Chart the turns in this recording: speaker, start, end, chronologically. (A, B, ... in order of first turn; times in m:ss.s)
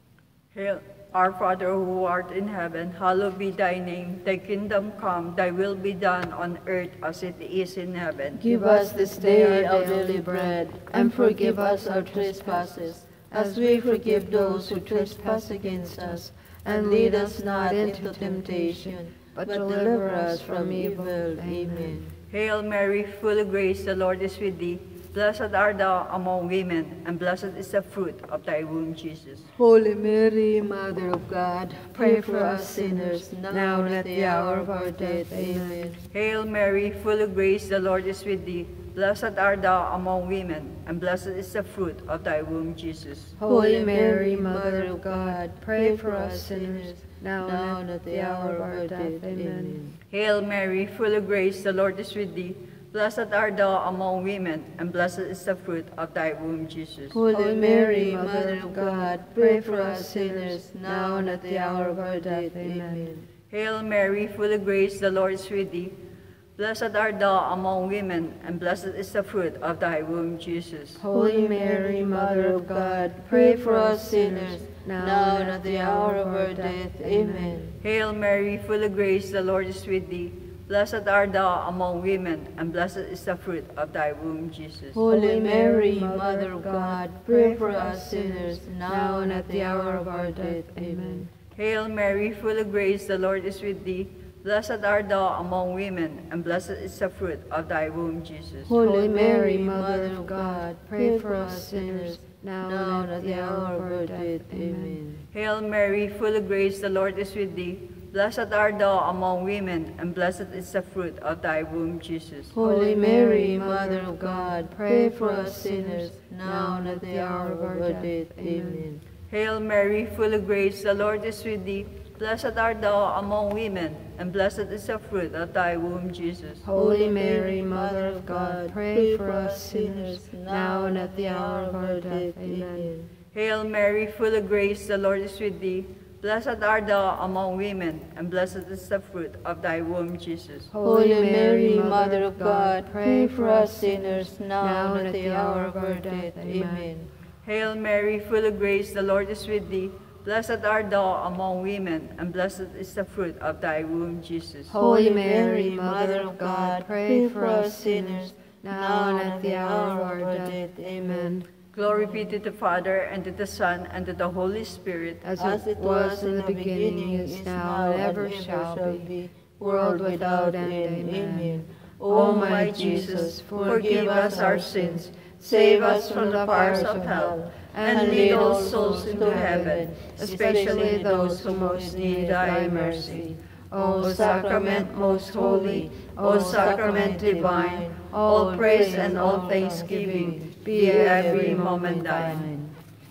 0:00.5-0:08.4 A
0:08.4-0:22.1 B
0:08.4-0:22.0 C
0:22.3-0:29.5 A
0:29.5-0:36.0 B
0:31.9-0:36.0 C
0:36.1-0:43.4 A
0:43.4-0:49.8 C
0:43.4-0:50.0 B
0:50.1-0:57.2 A
0:57.1-1:03.3 B
0:57.3-1:03.1 C
1:03.5-1:05.9 A
1:06.6-1:11.0 A
1:11.0-1:17.6 C
1:11.1-1:17.8 B
1:17.8-1:25.0 A
1:24.9-1:31.3 B
1:25.1-1:31.3 C
1:31.5-1:38.7 A
1:38.7-1:45.2 B
1:38.8-1:45.0 C
1:45.3-1:52.5 A
1:52.5-1:59.0 B
1:52.6-1:58.8 C
1:59.3-2:06.6 A
2:06.6-2:12.9 C
2:06.7-2:13.1 B
2:13.3-2:20.7 A
2:20.7-2:26.9 C
2:20.8-2:27.1 B
2:27.4-2:34.8 A
2:34.7-2:41.5 C
2:34.8-2:42.3 B
2:41.7-2:45.2 A
2:45.2-2:49.1 C
2:45.4-3:12.8 B
2:49.6-2:57.2 C
2:52.1-3:03.3 A
2:57.7-3:12.4 C
3:04.0-3:12.5 A